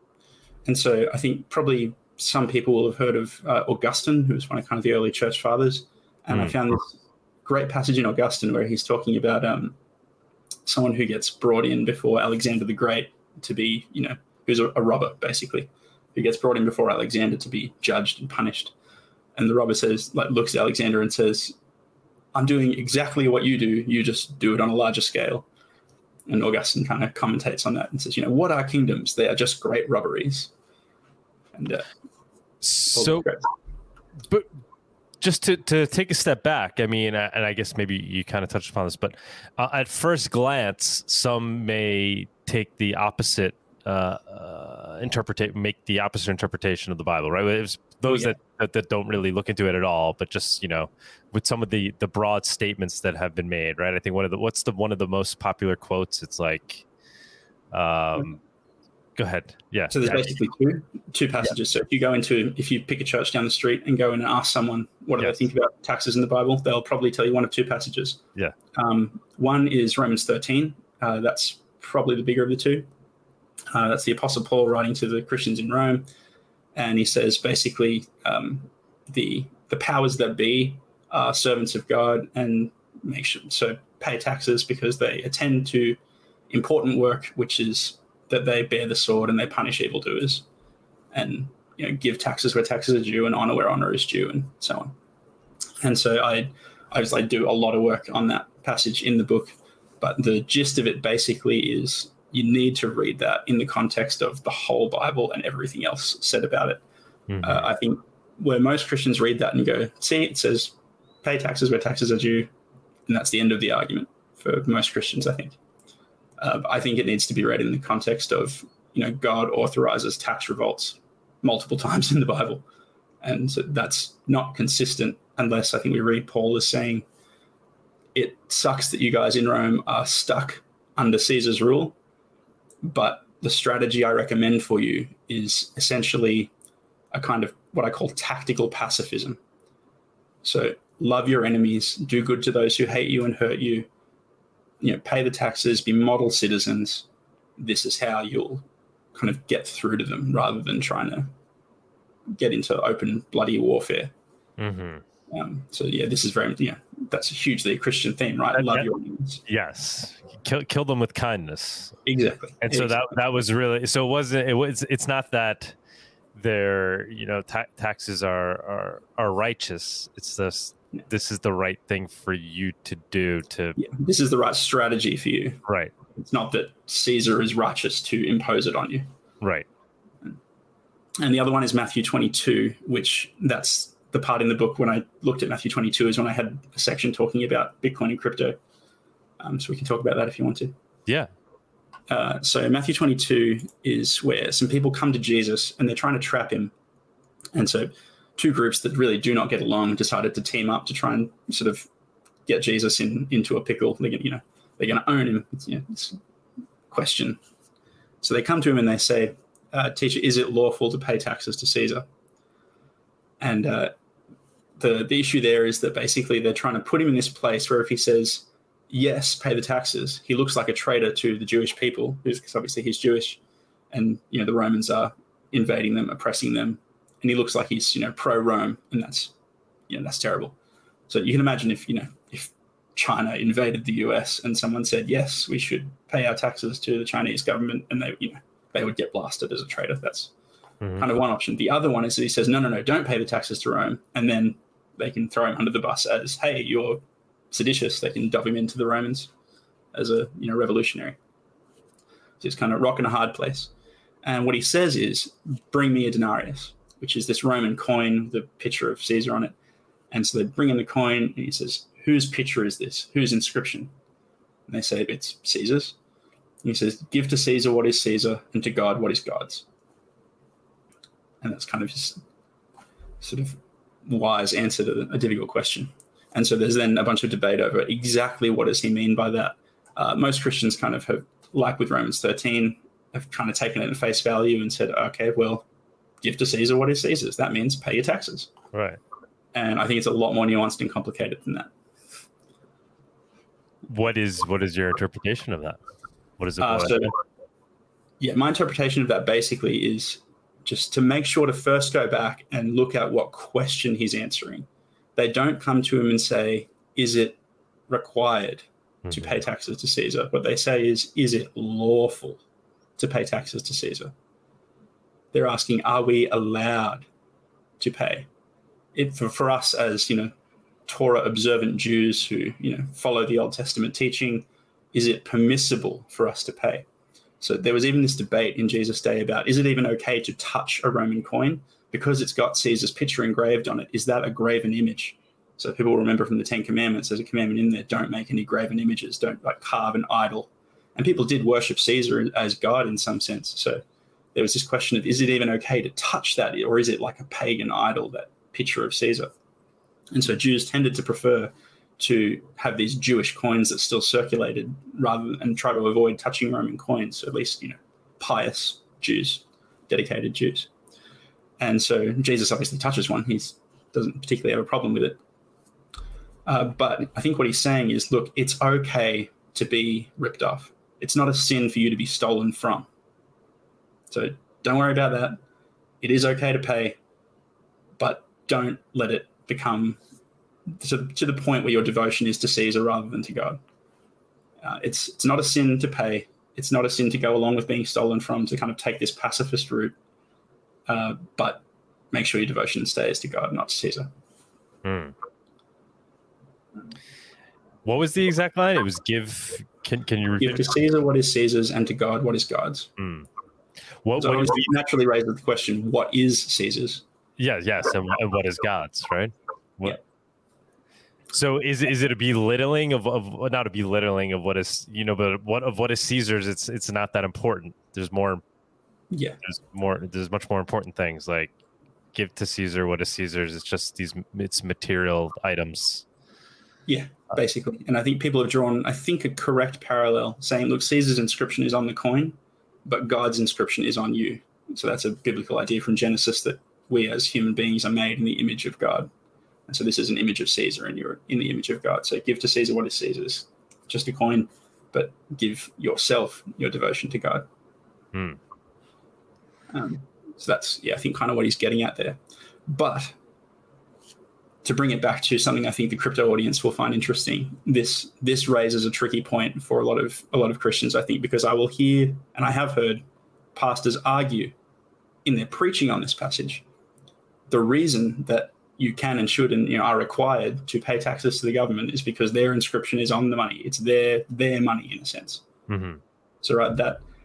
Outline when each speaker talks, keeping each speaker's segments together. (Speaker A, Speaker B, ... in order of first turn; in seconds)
Speaker A: 0.7-9.8, 10.7-18.7, 19.4-21.5, 22.3-25.4, 26.3-30.5, 31.5-31.9, 32.9-33.5, 48.1-48.4, 59.9-68.2, 68.7-72.9, 73.7-76.1, 76.7-86.0, 86.5-90.4, 91.1-94.9, 95.8-106.8, 107.4-112.5, 113.1-115.5, 116.4-122.6, 123.2-127.0, 128.1-131.9, 132.8-136.5, 137.1-139.4, 140.4-143.9, 144.8-147.0, 147.6-151.3, 152.3-154.1, 155.3-159.4, 162.1-163.1, 173.8-175.6, 176.1-179.1, 181.2-188.6, 189.4-190.7, 192.1-196.7, 197.5-201.8, 202.5-206.2, 206.9-207.4, 208.2-212.1, 213.4-213.9, 214.8-223.4, 223.9-229.3, 229.9-230.6, 231.1-240.3, 241.0-249.3, 249.9-251.2, 252.4-253.7, 254.2-259.5, 260.1-263.9, 264.7-265.9, 266.6-269.6, 271.4-272.2, 273.2-285.6, 286.2-288.5, 289.5-291.7, 296.6-297.1, 298.2-307.4, 307.9-312.4, 313.0-314.1, 315.3-317.1, 317.8-318.3, 318.9-320.3, 320.9-326.9, 327.4-343.8, 344.3-349.3, 350.1-360.7, 361.6-365.2, 366.4-372.9, 374.1-375.4, 376.0-377.0, 378.0-380.0, 380.8-383.6, 384.6-389.9, 390.9-394.1, 400.4-402.9, 404.2-407.0, 419.1-419.4, 426.9-439.1, 439.7-447.4, 449.7-453.1, 454.6-463.0, 463.5-464.5, 465.2-466.6, 467.5-475.4, 476.4-477.0
Speaker B: 6.3-6.6, 32.6-33.3, 35.2-56.8, 57.7-58.4, 59.1-60.3, 107.3-107.7, 154.6-155.0, 158.5-158.9, 159.4-162.0, 162.6-165.8, 166.3-173.8, 175.7-175.9, 179.4-179.7, 191.1-191.3, 240.8-241.1, 288.7-289.0, 293.9-295.8, 296.4-297.1, 309.0-309.4, 394.8-395.1, 397.8-400.7, 403.0-403.3, 404.0-404.8, 407.4-410.0, 411.3-418.4, 419.4-421.5, 422.1-426.0, 448.1-448.4, 475.7-476.0